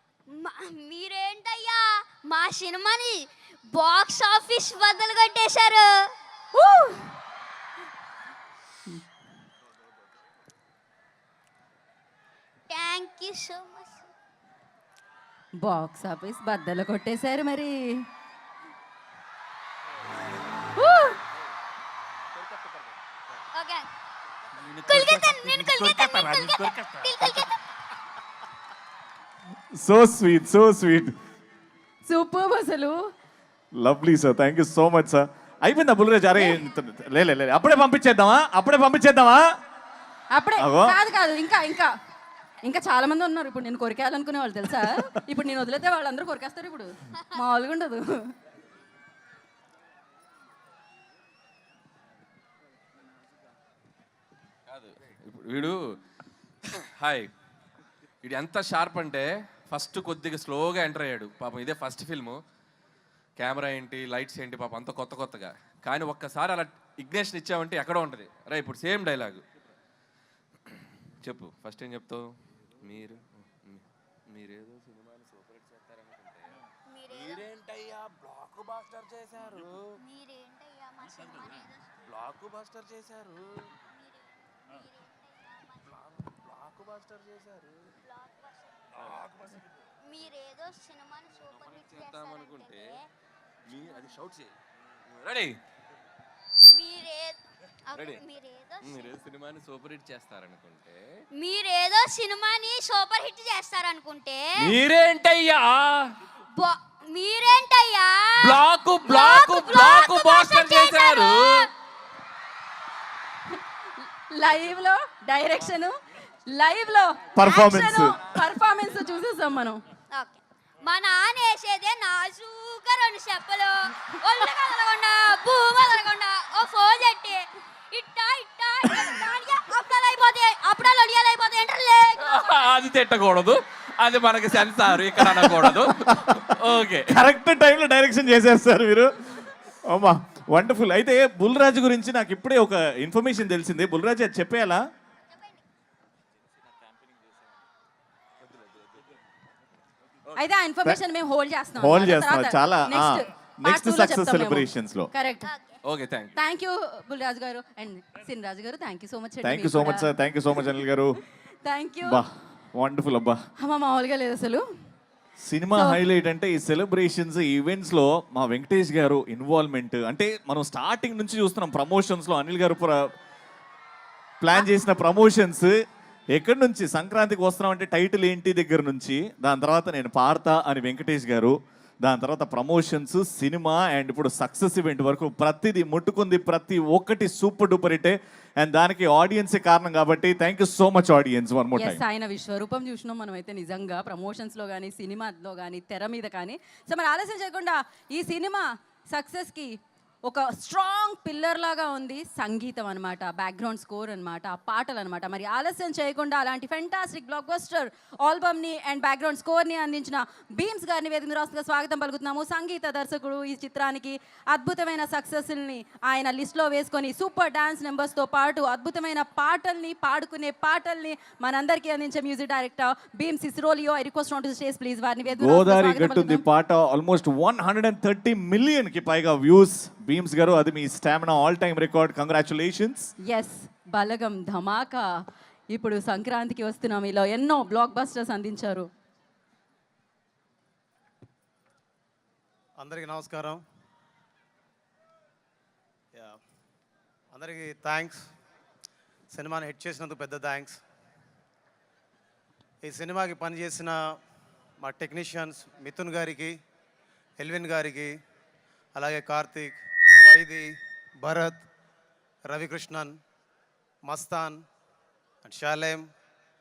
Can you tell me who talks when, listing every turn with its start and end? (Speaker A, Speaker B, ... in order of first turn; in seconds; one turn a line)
Speaker A: 0.3-6.0
Speaker B: 6.5-7.1
Speaker A: 12.7-14.1
Speaker B: 15.6-18.1
Speaker B: 20.8-21.1
Speaker A: 23.5-23.9
Speaker A: 24.8-27.6
Speaker C: 29.8-31.1
Speaker B: 32.0-33.0
Speaker C: 33.8-39.4
Speaker B: 40.3-41.9
Speaker C: 40.6-41.0
Speaker B: 42.6-48.3
Speaker D: 54.7-55.8
Speaker D: 57.0-57.3
Speaker D: 58.2-62.4
Speaker D: 63.4-69.4
Speaker D: 71.2-72.3
Speaker D: 72.8-76.5
Speaker A: 76.9-77.5
Speaker D: 77.3-79.8
Speaker A: 80.0-82.0
Speaker D: 82.1-83.5
Speaker A: 83.8-86.0
Speaker D: 86.5-87.7
Speaker A: 88.0-89.0
Speaker A: 90.0-93.1
Speaker D: 91.6-93.0
Speaker D: 93.7-94.5
Speaker D: 95.1-95.6
Speaker A: 96.7-99.1
Speaker D: 97.9-98.2
Speaker D: 98.8-101.0
Speaker A: 101.3-104.7
Speaker D: 104.6-106.1
Speaker A: 106.5-111.7
Speaker D: 108.4-111.7
Speaker B: 114.3-116.0
Speaker B: 116.5-119.8
Speaker C: 117.3-118.2
Speaker A: 120.1-132.4
Speaker D: 132.2-137.2
Speaker C: 135.1-136.4
Speaker C: 137.1-144.8
Speaker A: 145.3-145.6
Speaker B: 150.4-155.5
Speaker C: 151.8-155.1
Speaker A: 155.4-155.8
Speaker D: 155.8-156.3
Speaker B: 156.3-160.1
Speaker C: 159.4-161.2
Speaker B: 161.6-162.2
Speaker C: 162.0-163.4
Speaker B: 163.6-164.6
Speaker C: 165.4-173.1
Speaker B: 165.7-166.0
Speaker C: 174.4-175.7
Speaker C: 176.3-192.0
Speaker B: 191.8-199.7
Speaker B: 200.2-226.4
Speaker C: 225.4-233.1
Speaker B: 233.3-235.1
Speaker B: 235.7-238.9
Speaker E: 242.8-243.6
Speaker E: 246.1-246.4
Speaker E: 247.3-248.3
Speaker E: 249.3-250.8
Speaker E: 252.8-254.2
Speaker E: 254.8-256.5
Speaker E: 257.4-258.1
Speaker E: 258.9-261.6
Speaker E: 262.4-263.2
Speaker E: 264.0-264.6
Speaker E: 265.4-266.1